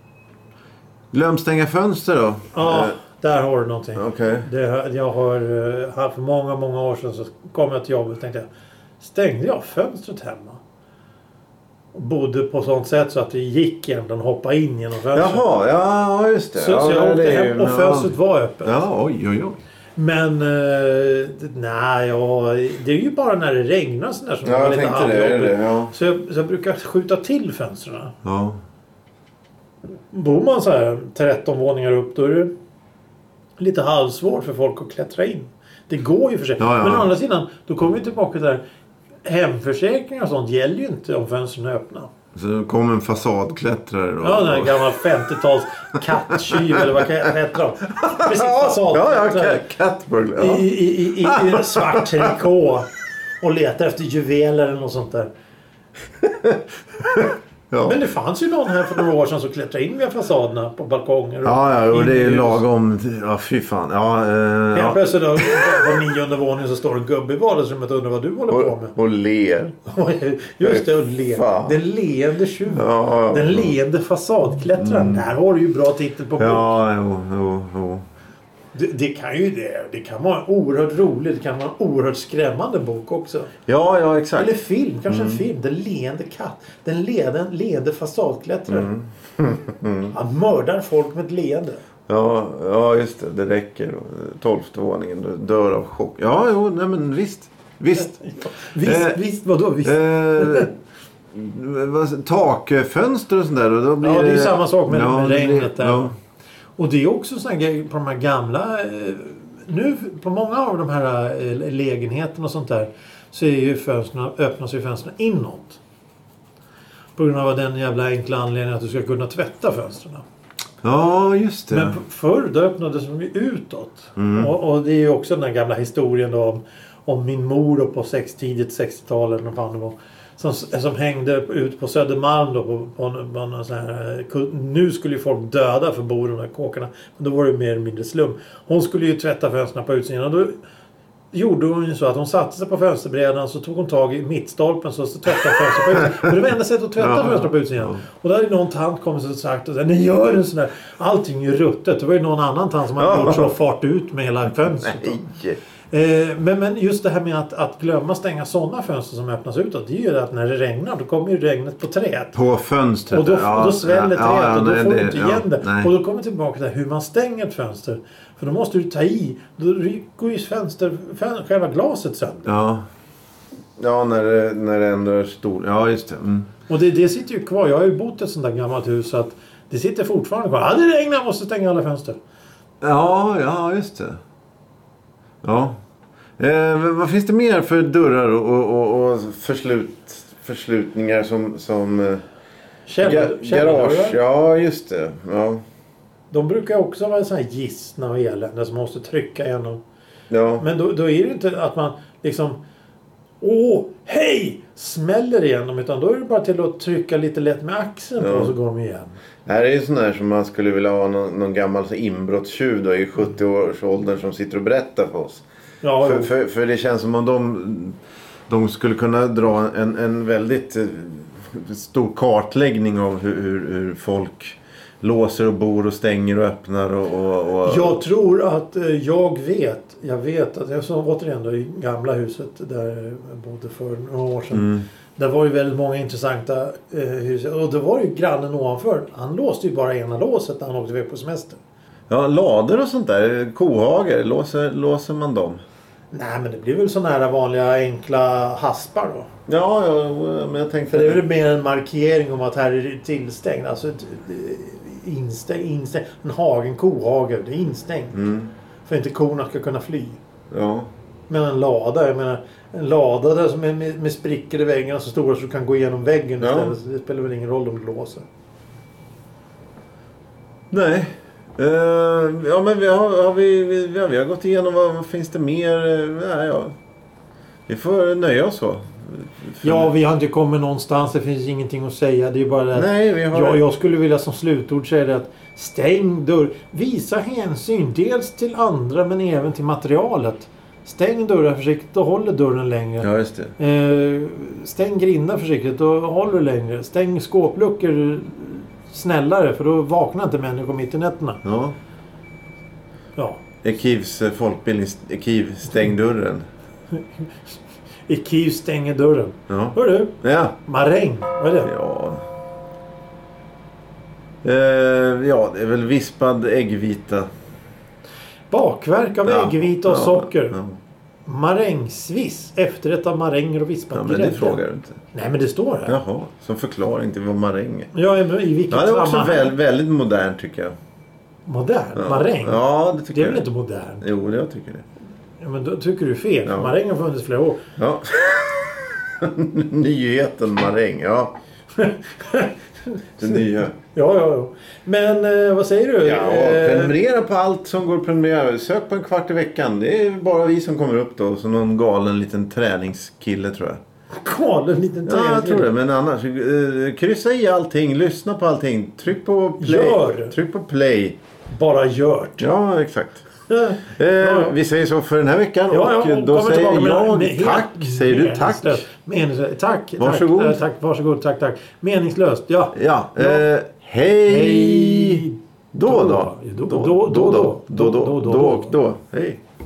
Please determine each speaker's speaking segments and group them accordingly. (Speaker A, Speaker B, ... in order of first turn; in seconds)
Speaker A: 1.1-3.0, 4.0-4.5, 15.1-19.6, 24.4-25.9, 28.2-28.6, 36.6-37.1, 42.3-44.9, 46.4-47.0, 48.0-52.3, 56.2-58.0, 61.5-65.9, 68.5-69.8, 70.6-71.8, 72.7-73.7, 74.8-75.2, 76.4-78.1, 83.7-84.5, 85.1-85.4, 88.7-90.1, 92.1-98.2, 98.8-99.2, 99.8-100.8, 101.3-106.1, 120.8-122.0, 124.2-124.5, 145.6-146.4, 147.0-148.0, 153.0-153.6, 154.6-155.6, 162.3-165.9, 172.4-172.8, 173.8-176.5, 182.8-184.2, 185.4-185.8, 186.4-192.2, 193.0-195.6, 200.3-200.6, 208.2-208.5, 209.5-215.4, 216.0-218.0, 218.5-228.0, 234.5-234.8, 242.1-245.6, 249.5-251.2, 258.1-258.5, 260.5-260.9, 266.4-266.7, 270.7-276.8, 277.7-279.9, 282.7-283.6, 293.0-293.6, 301.4-301.8, 303.6-306.5, 309.5-310.6, 311.6-312.2, 314.4-317.3, 319.2-320.8, 323.9-325.0, 325.9-327.9, 328.7-330.8, 332.0-333.4, 334.0-334.9, 336.4-336.8, 337.8-341.4, 343.2-343.8, 346.0-353.8, 355.1-361.2, 362.4-363.3, 363.8-368.8, 370.0-370.6, 372.7-379.4
Speaker B: 2.5-8.5, 9.0-10.6, 11.9-15.5, 16.6-18.8, 20.0-28.1, 30.1-32.5, 33.6-38.6, 39.2-42.1, 44.2-49.6, 50.4-52.9, 53.4-55.3, 57.8-62.6, 64.7-68.9, 69.8-76.7, 78.8-83.5, 84.4-88.9, 90.1-91.8, 98.0-100.7, 104.0-106.1, 106.8-115.8, 117.2-120.2, 121.7-140.6, 141.3-155.2, 155.9-162.4, 163.1-172.5, 176.7-182.2, 192.9-194.2, 196.3-199.8, 200.6-202.6, 203.4-209.2, 215.8-216.3, 227.6-241.6, 246.1-249.3, 250.9-258.2, 258.9-260.2, 261.3-268.2, 279.6-301.4, 303.2-303.4, 306.9-307.6, 308.1-310.1, 310.6-311.7, 318.5-320.6, 321.3-324.6, 325.1-326.0, 327.9-329.5, 331.5-334.1, 335.4-337.6, 341.8-346.9, 354.1-355.7, 359.6-360.4, 361.5-362.4, 363.5-364.6, 365.7-373.4, 374.3-378.8